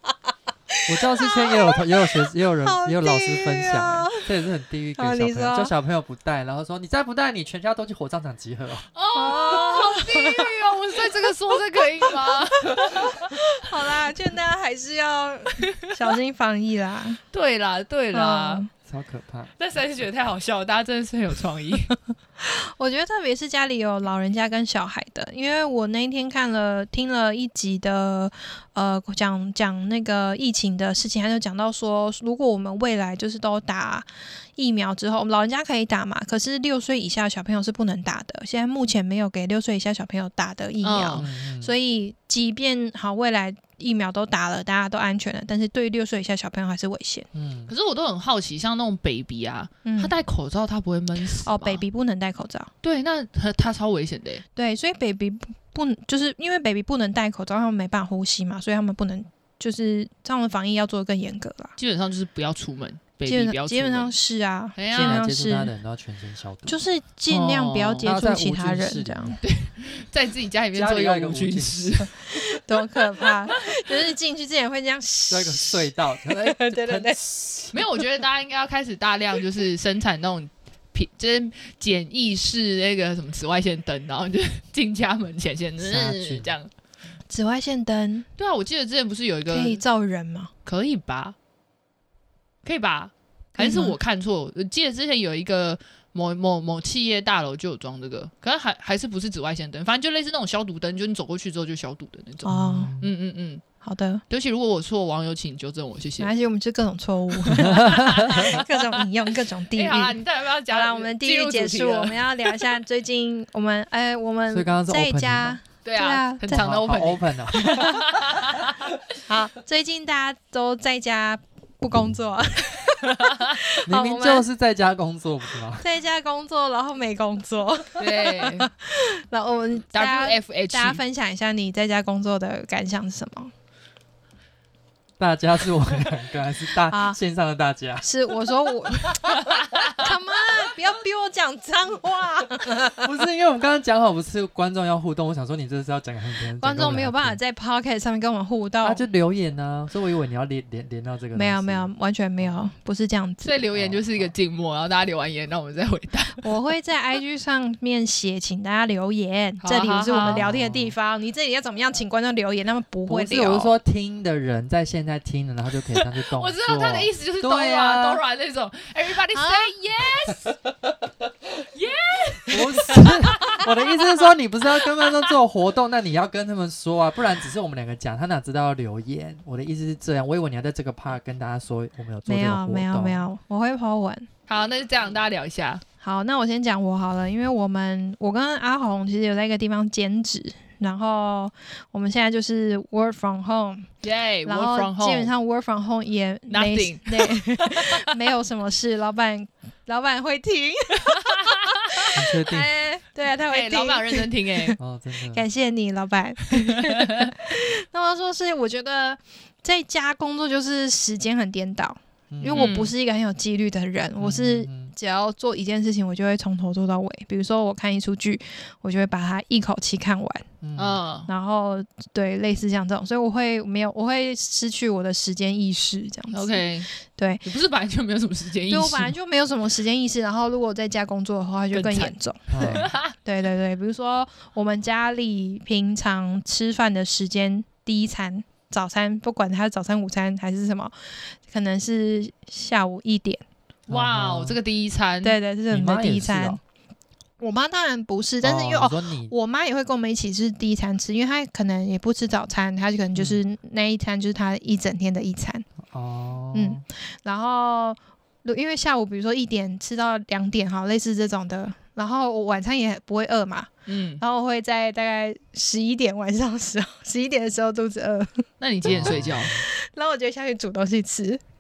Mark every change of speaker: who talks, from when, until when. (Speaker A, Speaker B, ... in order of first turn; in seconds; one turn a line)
Speaker A: 0.7-4.3
Speaker B: 0.9-8.9
Speaker A: 5.0-5.7
Speaker C: 8.9-13.3
Speaker A: 9.1-10.5
Speaker A: 12.7-17.2
Speaker C: 17.3-18.6
Speaker A: 18.1-18.7
Speaker B: 18.8-19.5
Speaker C: 19.6-21.9
Speaker A: 22.4-47.3
Speaker C: 40.8-41.3
Speaker B: 41.2-41.7
Speaker B: 47.3-47.7
Speaker C: 47.7-51.8
Speaker A: 49.8-50.1
Speaker A: 51.4-52.7
Speaker C: 52.8-54.4
Speaker A: 54.5-61.7
Speaker C: 61.8-64.1
Speaker A: 63.3-65.7
Speaker C: 64.8-65.2
Speaker B: 64.9-66.8
Speaker A: 66.7-69.4
Speaker C: 67.3-68.0
Speaker B: 68.0-69.4
Speaker C: 69.4-72.1
Speaker B: 70.7-72.6
Speaker A: 72.3-77.2
Speaker B: 75.3-77.9
Speaker C: 77.7-86.7
Speaker B: 85.8-86.5
Speaker A: 87.3-88.3
Speaker C: 88.4-89.8
Speaker A: 89.5-90.5
Speaker C: 90.6-91.3
Speaker C: 92.6-103.6
Speaker A: 93.6-94.0
Speaker A: 102.4-102.9
Speaker B: 102.5-103.1
Speaker A: 103.8-104.2
Speaker C: 104.3-106.3
Speaker A: 106.2-116.7
Speaker B: 107.5-108.5
Speaker C: 107.6-108.8
Speaker C: 109.7-112.7
Speaker B: 114.5-115.6
Speaker C: 115.8-118.8
Speaker B: 116.5-118.6
Speaker A: 117.5-118.0
Speaker A: 119.2-124.5
Speaker B: 123.8-125.9
Speaker A: 125.8-133.5
Speaker C: 128.0-128.7
Speaker C: 129.9-131.0
Speaker B: 135.2-138.1
Speaker A: 136.9-137.2
Speaker A: 138.0-143.1
Speaker B: 142.9-147.4
Speaker A: 146.6-149.0
Speaker B: 148.8-152.6
Speaker A: 151.3-153.6
Speaker C: 153.4-156.5
Speaker B: 153.7-154.3
Speaker A: 156.4-163.7
Speaker C: 159.6-160.4
Speaker B: 160.2-160.9
Speaker B: 163.1-168.2
Speaker C: 166.0-170.6
Speaker A: 169.3-169.7
Speaker C: 171.7-173.8
Speaker B: 172.5-183.2
Speaker C: 174.8-175.3
Speaker A: 182.2-184.3
Speaker C: 184.5-185.8
Speaker A: 186.0-193.9
Speaker C: 194.0-195.3
Speaker A: 194.4-204.7
Speaker C: 196.5-198.1
Speaker B: 202.1-202.8
Speaker C: 203.5-204.8
Speaker B: 204.8-205.4
Speaker A: 205.3-220.4
Speaker C: 206.7-207.3
Speaker B: 212.3-212.7
Speaker C: 212.5-212.9
Speaker B: 214.2-214.9
Speaker B: 220.6-221.0
Speaker C: 220.8-221.3
Speaker A: 221.3-227.4
Speaker C: 226.3-226.9
Speaker C: 227.4-229.1
Speaker A: 228.7-243.4
Speaker C: 231.7-233.1
Speaker B: 232.5-232.9
Speaker C: 243.9-245.4
Speaker B: 243.9-244.6
Speaker A: 245.2-246.6
Speaker B: 245.7-246.6
Speaker A: 247.4-255.7
Speaker B: 248.4-249.3
Speaker B: 253.1-253.4
Speaker B: 255.8-256.8
Speaker A: 256.5-271.4
Speaker C: 263.9-264.2
Speaker C: 268.6-269.5
Speaker B: 268.8-269.6